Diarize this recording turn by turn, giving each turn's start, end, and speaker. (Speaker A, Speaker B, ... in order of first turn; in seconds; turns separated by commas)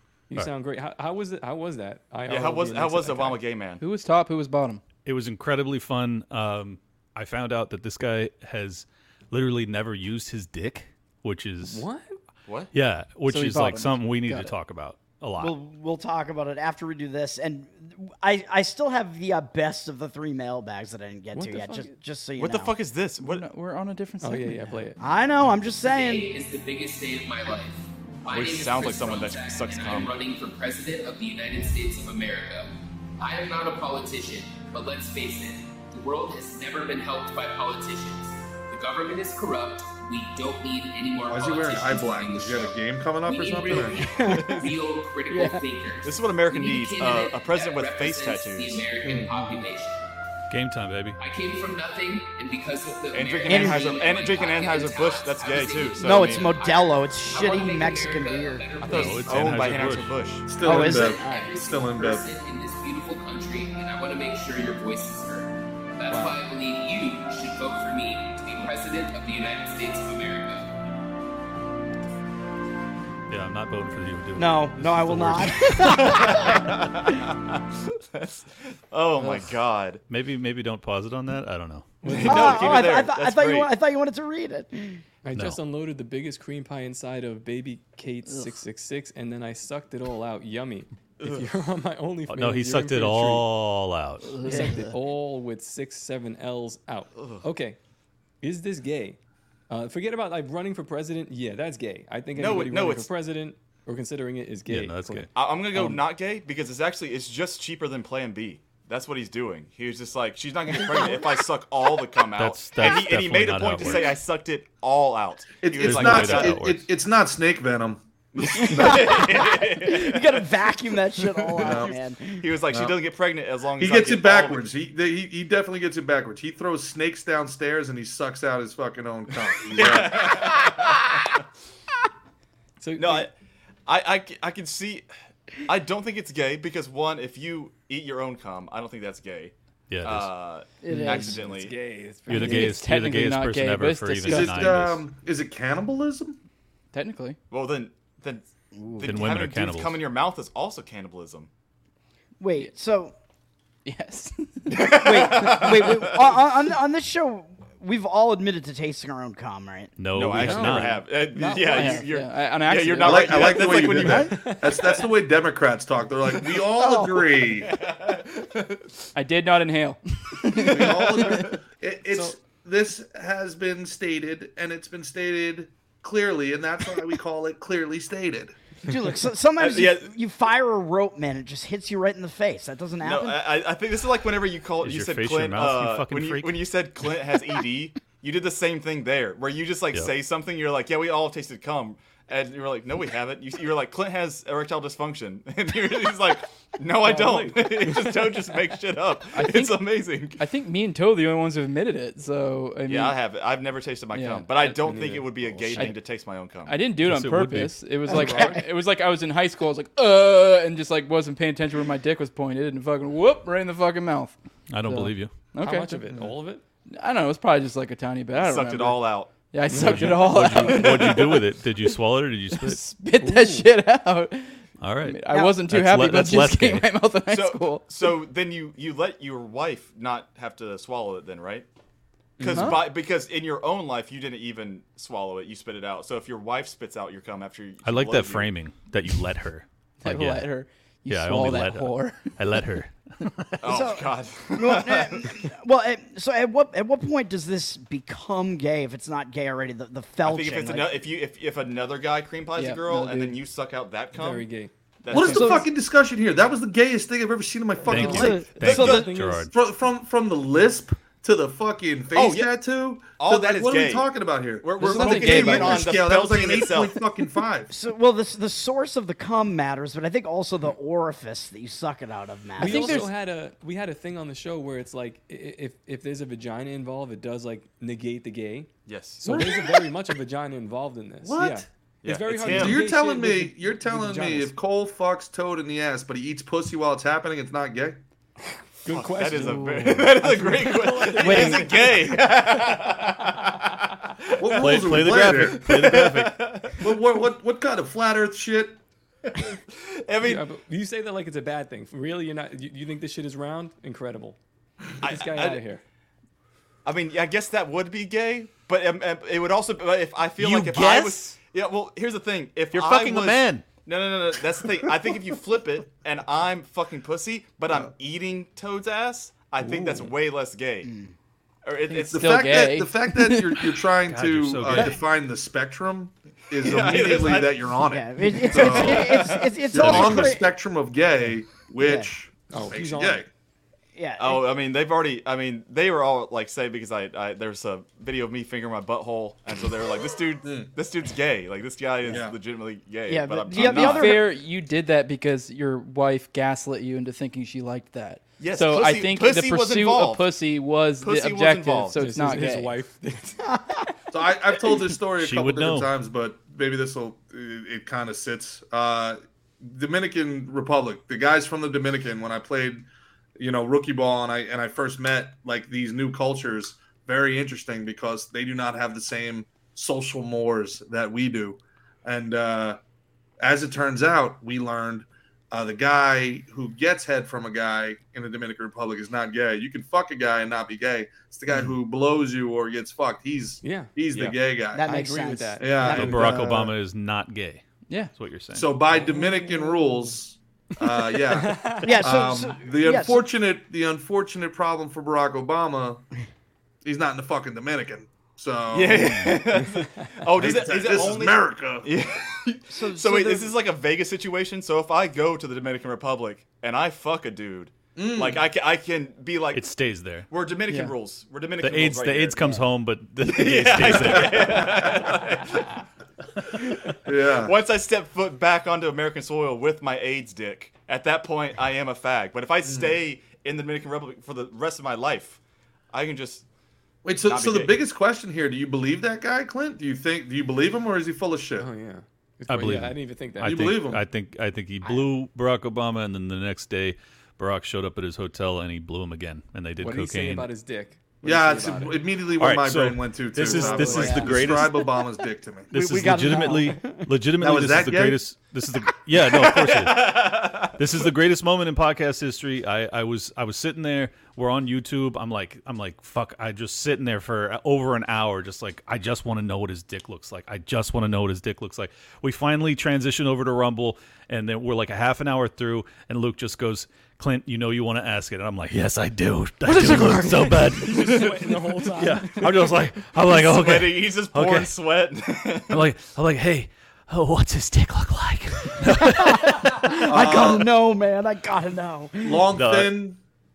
Speaker A: 0.3-3.4, Speaker B: 2.3-3.8, Speaker C: 3.8-4.8, Speaker D: 5.0-11.8, Speaker A: 11.6-12.2, Speaker B: 12.5-12.7, Speaker D: 12.7-15.6, Speaker C: 13.2-14.5, Speaker E: 15.4-22.8, Speaker A: 21.3-21.9, Speaker B: 22.4-23.5, Speaker C: 23.2-24.9, Speaker A: 24.2-25.0, Speaker E: 25.0-26.3, Speaker F: 25.9-50.1, Speaker B: 28.3-30.2, Speaker G: 41.3-44.0, Speaker E: 44.0-44.6, Speaker B: 44.2-44.7, Speaker E: 45.3-45.6, Speaker B: 46.0-48.9, Speaker G: 49.0-49.3, Speaker D: 50.5-51.2, Speaker F: 51.2-59.8, Speaker B: 53.1-56.5, Speaker E: 53.5-54.0, Speaker E: 56.0-58.7, Speaker B: 58.8-60.5, Speaker D: 58.9-60.2, Speaker G: 60.5-62.3, Speaker E: 60.6-61.6, Speaker F: 60.7-70.7, Speaker D: 73.3-76.2, Speaker E: 74.4-76.8, Speaker B: 75.8-80.0, Speaker D: 80.1-82.0, Speaker A: 82.0-82.9, Speaker B: 82.0-83.7, Speaker E: 82.2-85.0, Speaker A: 85.2-93.5, Speaker D: 85.3-85.6, Speaker D: 92.3-94.5, Speaker C: 94.3-94.8, Speaker A: 94.4-97.8, Speaker B: 97.2-97.4, Speaker A: 98.4-105.3, Speaker B: 102.4-103.1, Speaker D: 104.7-105.3, Speaker B: 105.3-116.7, Speaker D: 112.4-114.2, Speaker G: 115.6-119.4, Speaker D: 115.8-116.9, Speaker B: 118.3-120.5, Speaker E: 118.6-122.5, Speaker B: 121.5-124.7, Speaker G: 121.6-121.9, Speaker G: 122.7-123.0, Speaker G: 123.8-130.6, Speaker B: 129.7-131.2, Speaker A: 132.8-133.3, Speaker B: 133.0-133.3, Speaker B: 133.9-141.8, Speaker D: 139.9-140.3, Speaker C: 140.8-141.4, Speaker E: 140.9-141.2, Speaker A: 140.9-142.9, Speaker C: 142.3-144.7, Speaker D: 142.3-145.1, Speaker G: 144.2-146.4, Speaker C: 146.9-147.4, Speaker B: 147.5-148.5, Speaker E: 148.7-149.2, Speaker B: 149.0-151.5, Speaker D: 149.0-150.0, Speaker E: 152.4-153.1, Speaker C: 153.8-155.0, Speaker B: 154.7-156.4, Speaker E: 154.9-159.9, Speaker D: 160.0-161.0, Speaker B: 160.1-164.5, Speaker A: 160.4-162.1, Speaker C: 161.4-164.3, Speaker G: 163.0-167.7, Speaker A: 164.2-165.0, Speaker E: 166.8-167.3, Speaker B: 167.6-168.9, Speaker C: 169.2-171.4, Speaker B: 170.6-171.5, Speaker G: 170.6-178.6, Speaker E: 178.9-183.5, Speaker B: 179.6-180.1, Speaker B: 183.0-200.4, Speaker D: 184.8-186.6, Speaker A: 197.0-198.4, Speaker C: 199.3-199.8, Speaker C: 200.4-203.2, Speaker B: 202.9-206.8, Speaker C: 204.1-204.5, Speaker A: 204.6-205.9, Speaker C: 206.7-216.1, Speaker D: 207.0-207.8, Speaker E: 208.1-208.5, Speaker A: 208.1-208.6, Speaker D: 214.7-215.3, Speaker A: 215.6-216.6, Speaker C: 216.9-221.9, Speaker B: 218.4-219.3, Speaker A: 219.7-220.3, Speaker D: 219.7-222.8, Speaker C: 222.5-227.8, Speaker A: 223.2-223.7, Speaker D: 224.8-227.0, Speaker E: 225.3-225.6, Speaker B: 227.3-231.7, Speaker B: 232.4-238.5, Speaker C: 232.5-232.9, Speaker D: 237.8-240.5, Speaker C: 240.0-242.6, Speaker D: 241.1-243.6, Speaker B: 243.6-245.4, Speaker E: 243.6-251.0, Speaker B: 250.2-254.5, Speaker C: 252.6-253.3, Speaker A: 254.1-254.7, Speaker B: 255.0-255.7, Speaker G: 255.1-258.5, Speaker C: 255.1-255.5, Speaker E: 255.2-255.6, Speaker A: 257.9-259.5, Speaker D: 257.9-259.5, Speaker E: 257.9-259.2, Speaker B: 258.6-259.0, Speaker G: 259.5-267.7, Speaker B: 262.1-262.6, Speaker B: 263.2-264.1, Speaker B: 264.6-267.0, Speaker C: 264.8-265.8, Speaker E: 267.7-273.1, Speaker A: 272.6-284.5, Speaker C: 272.6-273.1, Speaker B: 278.9-279.5, Speaker G: 279.3-279.6, Speaker G: 281.2-281.7, Speaker B: 282.0-282.8, Speaker G: 282.4-288.0, Speaker A: 288.9-292.8, Speaker B: 288.9-296.8, Speaker C: 291.2-291.7, Speaker G: 294.4-295.9, Speaker D: 294.6-296.6, Speaker G: 296.8-298.8, Speaker B: 299.4-300.4, Speaker A: 300.2-304.4, Speaker B: 305.0-305.6, Speaker A: 305.0-305.8, Speaker B: 306.9-320.9, Speaker D: 310.4-311.2, Speaker D: 312.7-313.7, Speaker G: 319.6-320.1, Speaker E: 320.8-321.1, Speaker B: 321.6-322.3, Speaker C: 321.9-323.7, Speaker G: 322.1-333.3, Speaker D: 324.1-325.0, Speaker B: 326.6-327.8, Speaker E: 327.8-330.5, Speaker B: 328.4-330.3, Speaker E: 331.8-332.1, Speaker A: 332.5-333.2, Speaker E: 333.9-334.5, Speaker B: 334.2-344.2, Speaker G: 340.4-340.7, Speaker G: 342.1-342.4, Speaker E: 343.1-344.3, Speaker C: 343.6-352.8, Speaker B: 348.4-350.3, Speaker B: 351.0-352.0, Speaker A: 352.0-353.6, Speaker G: 354.1-362.9, Speaker D: 355.2-355.9, Speaker G: 363.4-372.8, Speaker G: 373.4-384.9, Speaker A: 383.6-386.1, Speaker E: 384.7-386.7, Speaker G: 385.6-386.7, Speaker D: 385.9-388.8, Speaker G: 388.5-396.1, Speaker A: 389.0-389.5, Speaker A: 390.9-392.0, Speaker E: 391.8-393.3, Speaker G: 396.8-399.2, Speaker B: 398.7-409.8, Speaker A: 399.6-400.1, Speaker G: 400.4-401.9, Speaker E: 402.7-403.6, Speaker G: 408.0-408.4, Speaker D: 409.5-410.3, Speaker B: 410.3-412.6, Speaker D: 411.6-414.8, Speaker B: 413.2-415.8, Speaker B: 416.6-425.4, Speaker G: 417.1-417.5, Speaker G: 422.7-422.9, Speaker B: 425.9-426.4, Speaker G: 427.1-431.7, Speaker B: 427.2-427.8, Speaker A: 431.6-434.0, Speaker D: 432.5-440.5, Speaker G: 433.4-434.0, Speaker A: 439.8-442.0, Speaker G: 441.2-445.7, Speaker D: 442.4-445.0, Speaker A: 443.4-444.2, Speaker E: 443.8-444.4, Speaker D: 445.7-474.7, Speaker E: 445.7-447.1, Speaker G: 447.4-448.3, Speaker B: 449.3-451.1, Speaker C: 469.8-470.8, Speaker E: 469.8-470.1, Speaker A: 470.8-472.8, Speaker B: 473.3-475.8, Speaker D: 475.7-479.9, Speaker E: 478.9-482.5, Speaker G: 480.1-480.7, Speaker G: 482.2-483.2, Speaker D: 482.5-483.0